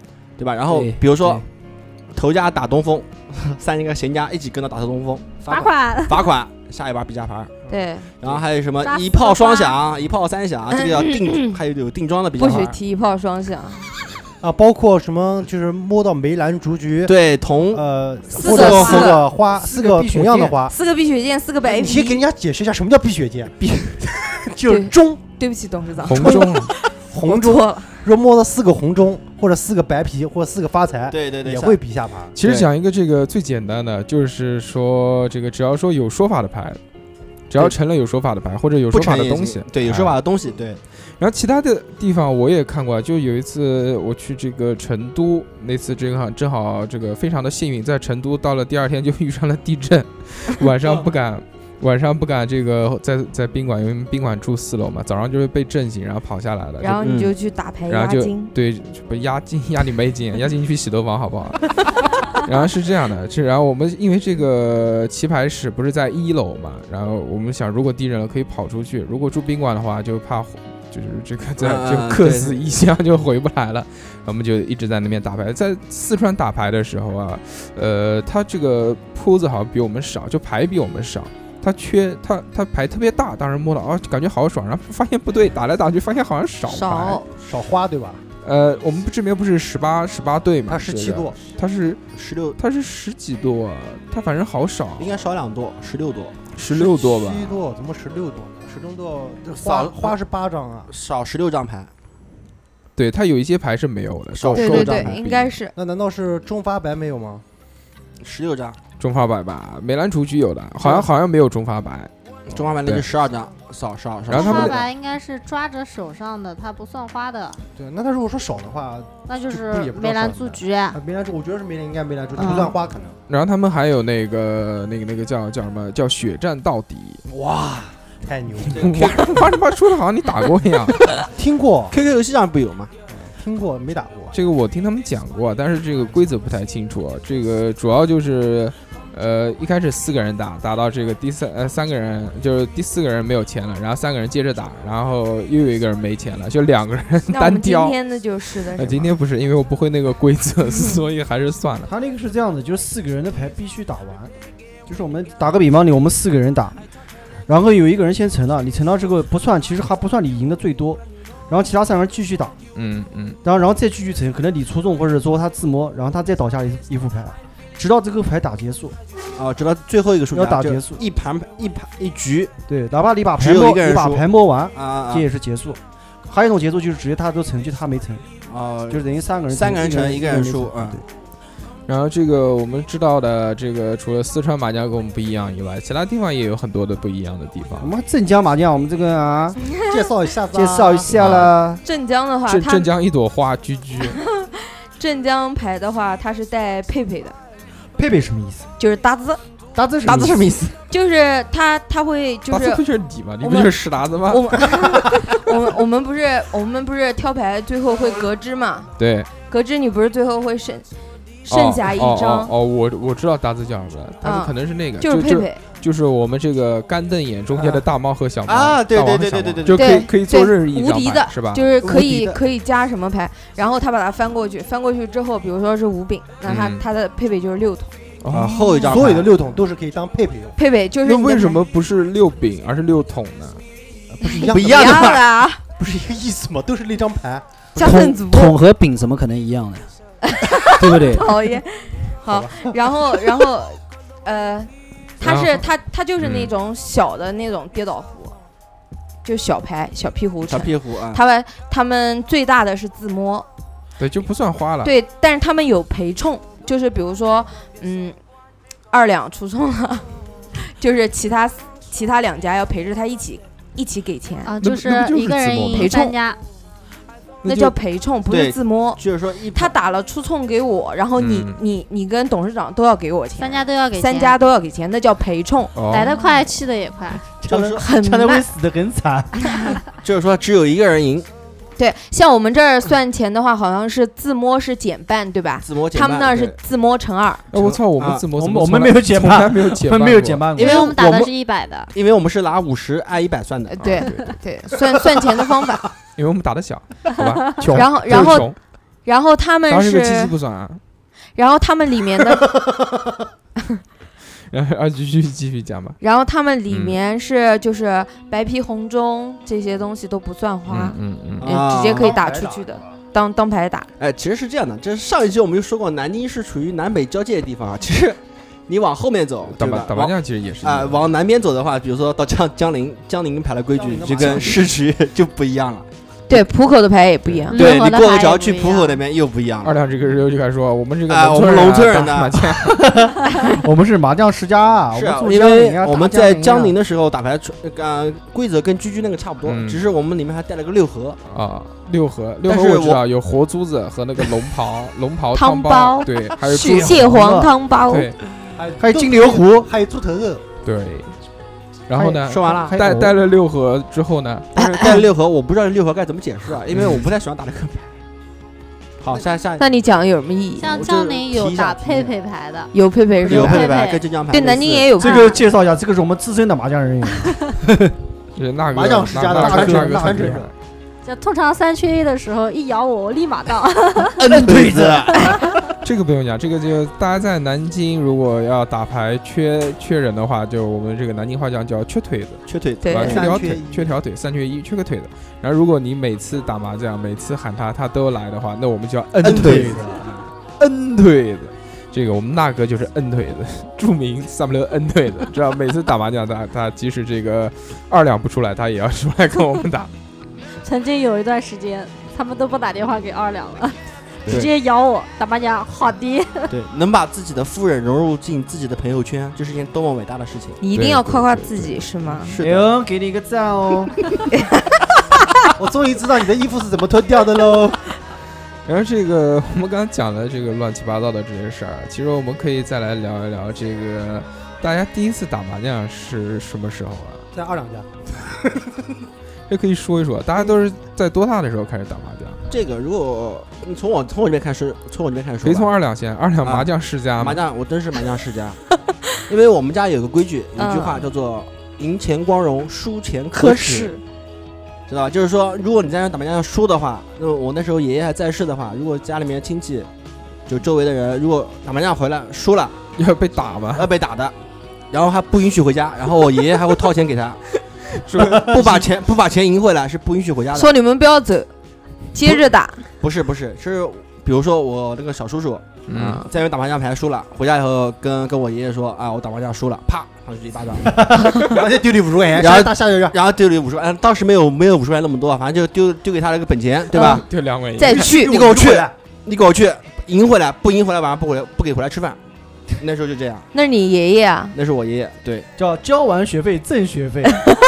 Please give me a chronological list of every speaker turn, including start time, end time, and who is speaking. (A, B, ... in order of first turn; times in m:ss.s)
0:00.4-0:01.4 A
0:00.7-0:01.4 B
0:02.1-0:05.5 A
0:05.5-0:06.3 C
0:06.0-0:07.6 A
0:07.7-0:08.1 D
0:08.2-0:12.7 A
0:08.8-0:09.8 C
0:10.8-0:11.6 D
0:12.4-0:13.9 D
0:14.4-0:17.1 E
0:17.0-0:17.8 A
0:17.7-0:20.7 E
0:18.3-0:19.2 D
0:18.4-0:19.1 A
0:19.5-0:20.6 F
0:20.7-0:22.2 D
0:21.6-0:23.6 E
0:23.6-0:24.0 A
0:24.4-0:25.2 E
0:24.6-0:27.9 D
0:26.0-0:26.7 G
0:26.1-0:26.5 E
0:27.1-0:32.3 E
0:31.1-0:31.8 A
0:32.4-0:36.8 G
0:32.4-0:32.7 A
0:37.5-0:40.2 G
0:38.9-0:40.8 A
0:41.2-0:57.1 G
0:56.8-0:58.5 D
0:57.0-0:57.3 A
0:57.9-1:27.2 G
1:11.6-1:12.7 A
1:26.7-1:27.2 D
1:27.4-1:28.2 E
1:28.4-1:32.0 G
1:30.7-1:31.4 E
1:32.1-1:32.6 A
1:32.6-1:35.2 G
1:35.0-1:36.4 A
1:36.5-1:37.6 G
1:36.7-1:40.9 E
1:39.5-1:40.1 A
1:40.9-1:41.9 A
1:43.0-1:45.5 G
1:44.3-1:45.2 A
1:44.6-1:45.7 D
1:45.7-1:47.4 E
1:48.2-1:48.8 A
1:49.0-1:53.1 G
1:50.8-1:51.1 A
1:52.5-1:54.9 A
1:54.3-1:54.7 G
1:54.3-1:57.6 C
1:57.7-2:03.2 E
1:59.3-2:01.0 C
2:03.3-2:07.2 G
2:07.3-2:09.2 E
2:08.7-2:09.4 A
2:08.8-2:11.0 G
2:11.3-2:11.9 E
2:11.9-2:12.9 A
2:13.1-2:14.3 E
2:14.3-2:28.0 G
2:27.3-2:29.1 D
2:28.7-2:31.9 G
2:31.8-2:34.3 F
2:34.9-2:36.8 F
2:37.5-2:42.6 F
2:42.7-2:43.4 G
2:43.4-2:48.9 F
2:49.4-2:52.5 A
2:50.3-2:51.0 F
2:52.7-2:58.2 F
2:53.3-2:55.3 A
2:58.5-3:01.0 A
2:58.9-3:01.0 F
3:01.9-3:07.9 G
3:07.8-3:09.6 F
3:09.8-3:11.1 E
3:10.5-3:11.8 F
3:11.1-3:11.5 G
3:11.8-3:12.9 D
3:12.5-3:14.2 G
3:14.1-3:17.3 D
3:18.0-3:18.7 F
3:18.8-3:19.4 D
3:19.8-3:20.5 F
3:19.8-3:20.4 E
3:20.0-3:20.7 A
3:20.9-3:22.8 D
3:22.5-3:25.2 G
3:23.4-3:28.9 D
3:29.0-3:29.3 G
3:29.5-3:30.8 D
3:31.4-3:32.5 D
3:31.5-3:41.7 G
3:34.2-3:35.6 D
3:37.5-3:37.8 A
3:38.5-3:40.1 A
3:39.7-3:47.9 D
3:41.8-3:42.4 A
3:46.4-3:46.8 G
3:48.2-3:49.2 G
3:48.3-3:49.3 A
3:48.8-3:50.6 E
3:50.6-3:51.6 D
3:51.0-3:53.6 G
3:54.2-3:55.2 E
3:54.2-3:55.6 D
3:54.5-3:55.2 A
3:55.8-3:57.4 E
3:57.8-3:58.6 D
3:57.8-3:59.9 B
4:00.3-4:08.3 D
4:00.8-4:01.3 B
4:02.2-4:02.7 E
4:05.2-4:05.6 G
4:06.2-4:06.5 G
4:09.2-4:13.5 D
4:10.4-4:11.2 A
4:14.0-4:14.9 G
4:14.8-4:18.2 D
4:18.9-4:24.5 D
4:24.4-4:26.4 C
4:24.6-4:25.9 G
4:25.7-4:26.1 D
4:27.4-4:27.7 A
4:27.4-4:36.1 D
4:28.3-4:29.7 A
4:31.2-4:31.6 G
4:33.4-4:34.4 C
4:35.7-4:36.2 G
4:35.9-4:37.3 C
4:37.4-4:39.6 F
4:37.5-4:37.8 A
4:37.8-4:38.4 D
4:40.0-4:41.3 A
4:41.8-4:47.4 D
4:45.6-4:46.6 A
4:47.5-4:50.5 G
4:47.5-4:48.2 A
4:48.4-4:50.8 F
4:50.6-4:51.3 A
4:50.6-4:51.9 C
4:51.9-4:54.0 A
4:53.7-4:55.8 D
4:53.8-4:54.4 G
4:56.1-4:58.6 G
4:57.7-4:58.5 D
4:59.0-5:00.3 D
4:59.7-5:00.8 G
5:01.4-5:02.5 D
5:04.5-5:06.0 G
5:06.0-5:13.9 D
5:06.7-5:07.0 G
5:10.7-5:11.6 G
5:11.4-5:12.2 A
5:11.8-5:12.9 E
5:14.0-5:25.8 A
5:19.4-5:21.1 G
5:23.7-5:24.7 E
5:26.3-5:27.7 D
5:27.5-5:28.8 C
5:27.5-5:29.8 A
5:28.5-5:28.8 D
5:29.6-5:32.9 G
5:31.1-5:32.5 A
5:32.8-5:36.7 F
5:34.9-5:41.2 A
5:39.4-5:39.8 G
5:41.3-5:48.2 G
5:42.5-5:43.0 A
5:45.3-5:48.1 D
5:46.4-5:47.5 F
5:48.6-5:50.4 E
5:48.8-5:49.7 F
5:50.6-5:51.1 G
5:51.9-5:54.5 G
5:51.9-5:53.0 F
5:52.2-5:52.8 A
5:54.5-5:58.0 A
5:54.6-5:55.0 D
5:56.7-5:57.1 G
5:59.0-5:59.6 A
5:59.6-6:00.7 D
6:00.6-6:02.7 C
6:00.7-6:02.1 A
6:02.7-6:03.7 D
6:03.3-6:04.9 A
6:03.3-6:04.0 C
6:04.3-6:05.3 D
6:05.0-6:07.9 F
6:05.1-6:05.4 C
6:08.4-6:10.5 G
6:08.7-6:10.5 E
6:09.3-6:10.4 F
6:11.0-6:14.2 C
6:14.2-6:15.4 A
6:14.2-6:15.4 F
6:15.8-6:29.8 G
6:22.5-6:23.3 A
6:22.8-6:23.2 D
6:23.0-6:24.0 E
6:29.2-6:29.8 A
6:29.2-6:30.0 E
6:30.6-6:39.9 G
6:40.6-6:46.5 C
6:44.3-6:44.5 A
6:46.5-6:50.6 A
6:50.6-6:52.3 D
6:50.7-6:52.1 G
6:52.3-6:52.8 A
6:52.4-6:53.9 F
6:55.6-6:57.8 E
6:58.6-7:07.2 G
7:07.3-7:08.8 E
7:09.5-7:12.4 G
7:12.5-7:15.7 A
7:15.4-7:17.4 G
7:16.4-7:18.6 A
7:19.3-7:23.9 A
7:20.6-7:21.0 D
7:24.9-7:29.9 A
7:30.5-7:32.8 A
7:33.0-7:33.9 G
7:33.7-7:34.3 A
7:34.9-7:37.4 A
7:38.0-7:38.9 G
7:38.2-7:40.7 A
7:40.5-7:41.5 D
7:42.1-7:42.8 D
7:43.0-7:51.1 A
7:45.9-7:46.2 G
7:51.3-7:53.2 E
7:52.4-7:57.3 A
7:56.9-7:57.2 D
7:57.0-7:58.0 G
7:57.8-7:58.4 D
7:57.8-7:58.9 E
7:57.9-8:02.2 A
8:02.8-8:03.5 A
8:03.5-8:04.5 D
8:04.5-8:05.5 A
8:05.6-8:07.4 F